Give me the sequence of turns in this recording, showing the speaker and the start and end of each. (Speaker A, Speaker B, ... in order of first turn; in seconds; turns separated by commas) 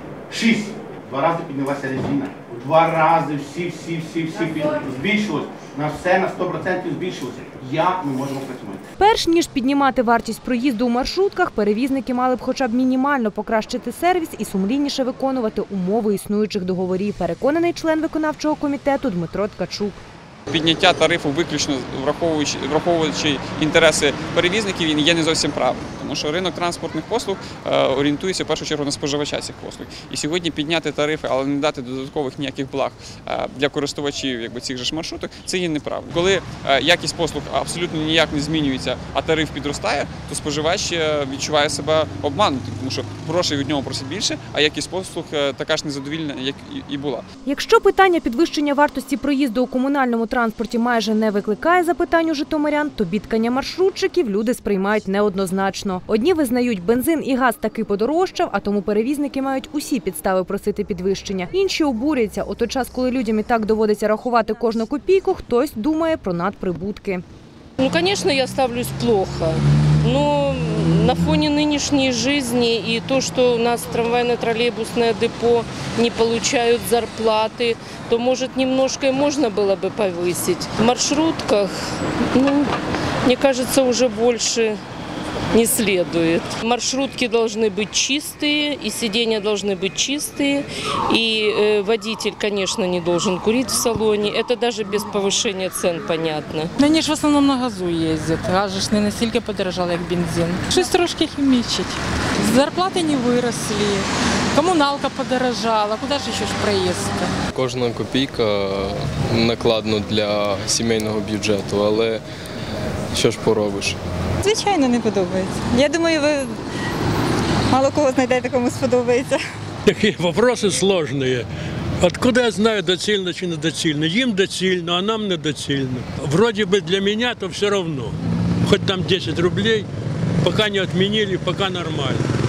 Speaker A: 0.3-8.9, Speaker B: 9.0-20.0, Speaker C: 20.5-47.2, Speaker B: 47.5-67.2, Speaker D: 67.8-81.7, Speaker D: 82.3-82.7, Speaker D: 83.2-84.8, Speaker D: 85.5-96.7, Speaker E: 96.8-107.3, Speaker F: 107.5-112.2, Speaker F: 113.1-114.0, Speaker G: 114.4-116.6, Speaker G: 117.7-119.4, Speaker H: 119.9-121.5, Speaker H: 122.0-128.1, Speaker H: 128.7-129.8, Speaker H: 130.4-132.2